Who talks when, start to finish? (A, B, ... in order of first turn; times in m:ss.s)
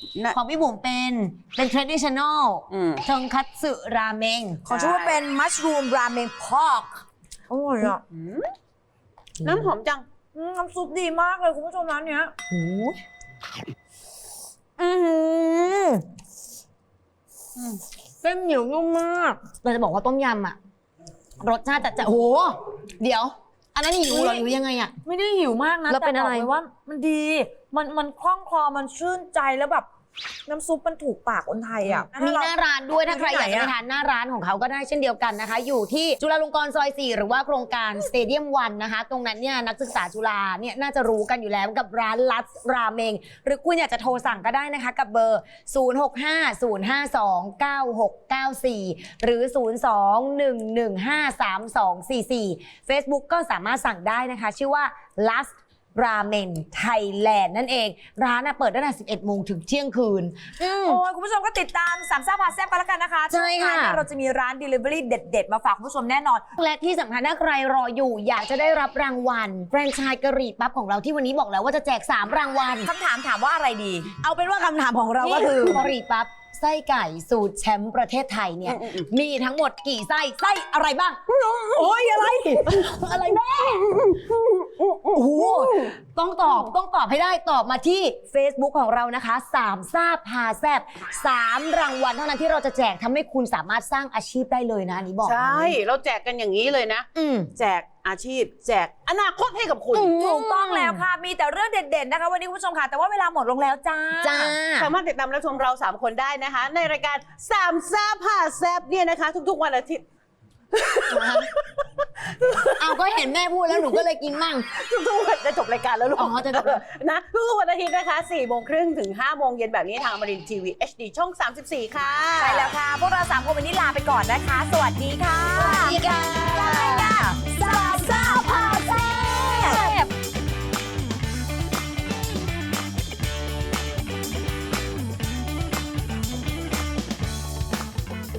0:00.3-0:04.6 A
0:02.7-0:03.0 B
0:04.7-0:05.2 B
0:04.7-0:06.9 C
0:07.5-0:08.0 C
0:08.1-0:08.5 B
0:09.4-0:09.7 A
0:09.4-0:10.0 B
0:10.3-0:12.3 C
0:12.5-0:13.0 A
0:14.8-0:16.0 A
0:17.6-0:17.8 B
0:18.2-0:20.6 A
0:21.4-0:24.9 A
0:24.1-0:24.5 C
0:25.0-0:29.9 C
0:25.9-0:26.5 A
0:30.5-0:32.5 C
0:32.1-1:01.0 A
0:33.0-0:33.7 C
1:00.8-1:06.4 C
1:03.3-1:04.0 A
1:06.6-1:12.9 A
1:12.8-1:14.1 C
1:14.2-1:24.2 A
1:15.2-1:15.7 C
1:18.6-1:19.1 B
1:21.8-1:22.6 C
1:24.6-1:25.9 B
1:25.1-1:35.8 A
1:26.5-1:26.7 B
1:35.2-1:40.2 B
1:37.1-1:37.5 A
1:39.9-1:41.0 A
1:40.2-1:44.6 C
1:44.2-1:44.9 A
1:44.7-1:50.0 B
1:50.7-1:53.0 B
1:51.1-1:51.5 A
1:52.8-1:54.7 A
1:53.7-1:54.0 B
1:54.7-2:02.7 B
1:56.2-1:56.8 A
2:02.4-2:10.0 C
2:05.6-2:10.1 A